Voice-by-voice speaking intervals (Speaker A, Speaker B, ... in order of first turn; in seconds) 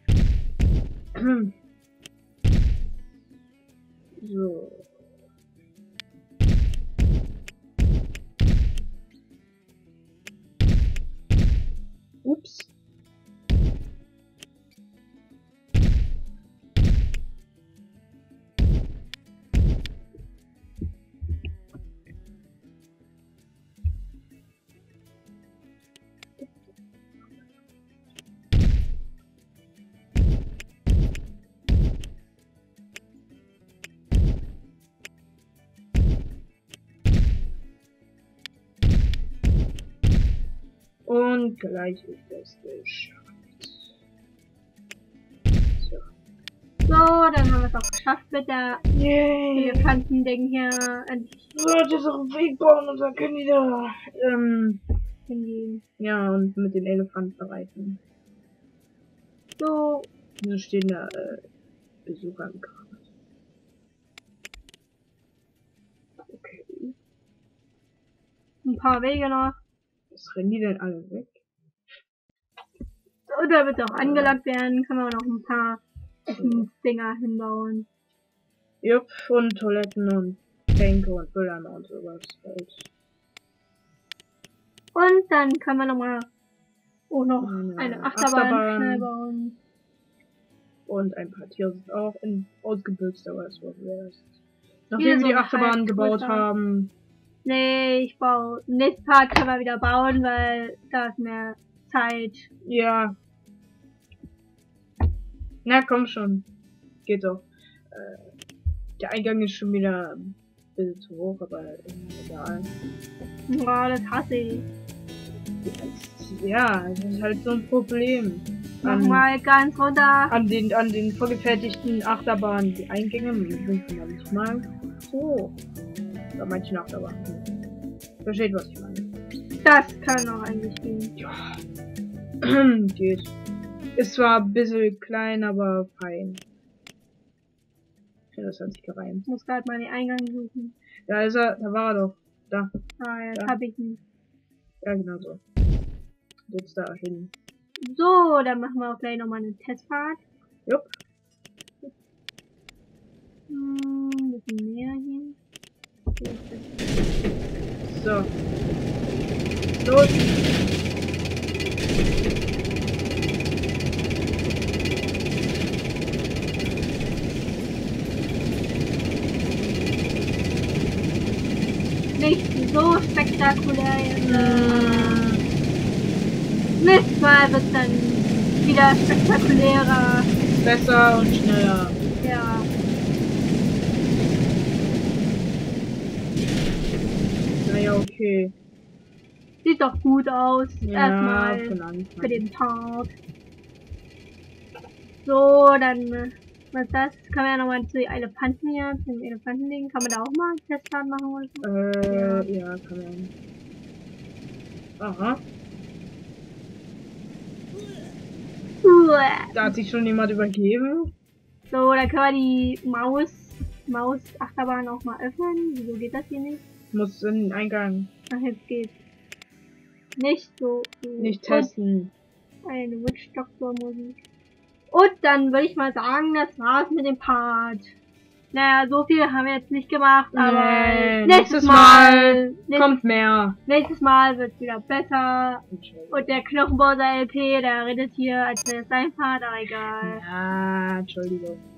Speaker A: 1.1-1.5, 4.2-4.9, 12.2-12.7, 41.0-43.8, 45.8-46.0, 48.9-49.9, 51.5-54.8, 56.0-58.0, 60.4-61.4, 62.0-63.0, 66.3-66.9, 70.1-71.4, 73.9-74.3, 76.3-76.7, 78.8-82.7, 87.4-89.1, 90.9-94.2, 94.9-96.9, 102.6-103.1, 105.6-106.5, 107.0-108.3, 109.0-112.7, 115.6-119.2, 120.3-125.5, 126.3-127.5, 128.2-129.1, 131.2-131.5, 132.4-133.3, 133.9-136.4, 138.3-139.2, 141.1-142.7, 144.8-145.4, 146.5-147.3, 157.8-158.3, 159.8-160.3, 174.2-175.4, 180.6-182.0, 187.6-188.5, 190.8-192.4, 201.6-203.3, 205.0-205.4, 209.5-211.1, 216.9-218.1, 221.2-222.1, 230.3-233.6, 235.7-236.3, 240.0-241.6
Speaker B: 46.9-48.9, 49.5-51.5, 55.3-55.8, 59.6-60.1, 68.6-69.5, 73.3-77.9, 84.9-86.3, 87.1-89.6, 95.0-96.5, 97.4-102.5, 113.5-114.7, 118.8-120.3, 129.6-131.1, 139.2-140.7, 143.0-144.0, 147.8-150.2, 153.5-155.3, 156.2-156.7, 172.2-175.2, 176.8-180.3, 182.2-182.7, 189.6-193.1, 195.2-202.5, 208.8-209.6, 211.7-216.6, 218.3-218.9, 220.2-221.7, 222.6-224.2, 224.9-227.9, 228.5-233.0, 233.7-240.2